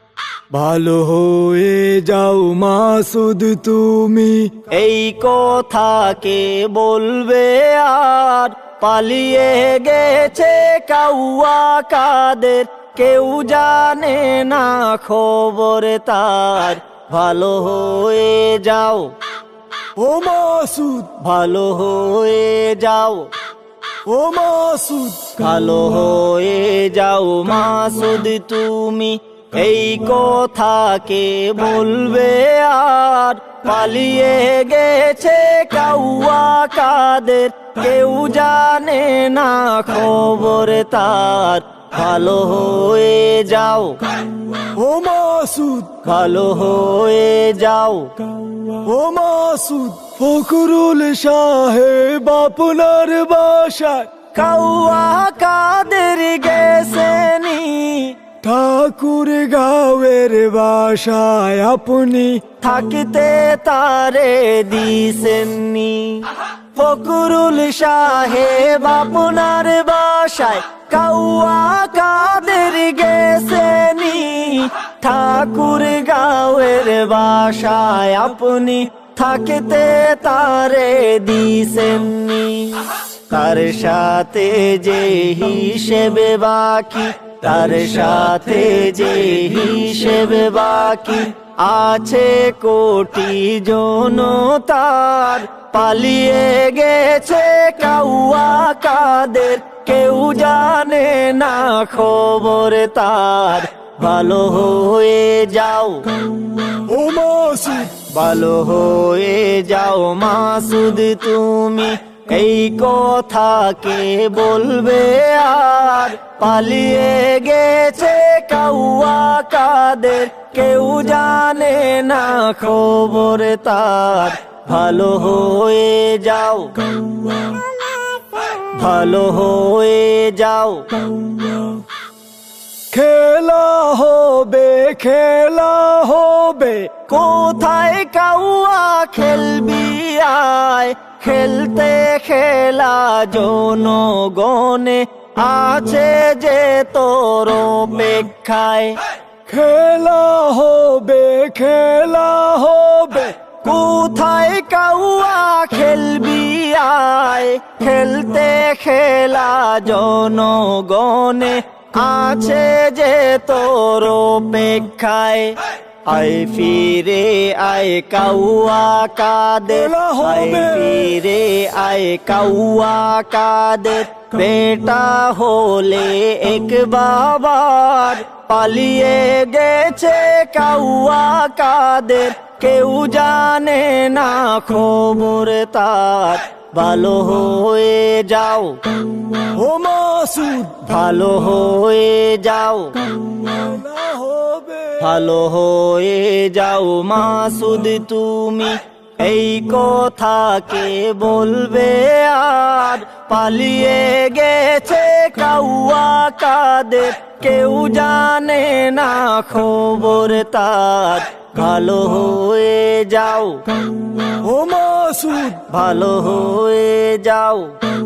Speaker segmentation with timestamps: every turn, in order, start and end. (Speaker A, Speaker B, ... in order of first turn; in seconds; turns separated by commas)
Speaker A: 0.5-4.6, Speaker B: 4.7-19.1, Speaker A: 20.0-21.2, Speaker B: 21.2-23.3, Speaker A: 24.1-25.4, Speaker B: 25.4-44.2, Speaker A: 44.6-46.0, Speaker B: 46.0-48.2, Speaker A: 48.5-54.1, Speaker B: 54.3-58.2, Speaker A: 58.4-62.4, Speaker B: 62.6-106.2, Speaker A: 106.6-108.0, Speaker B: 108.0-126.9, Speaker B: 128.4-131.3, Speaker A: 132.9-136.9, Speaker B: 137.0-149.0, Speaker A: 149.5-153.4, Speaker B: 153.6-188.8, Speaker A: 169.8-171.1, Speaker A: 189.4-190.8, Speaker B: 190.8-193.1, Speaker A: 193.2-195.1, Speaker B: 195.0-213.6, Speaker A: 214.2-215.6, Speaker B: 215.7-217.8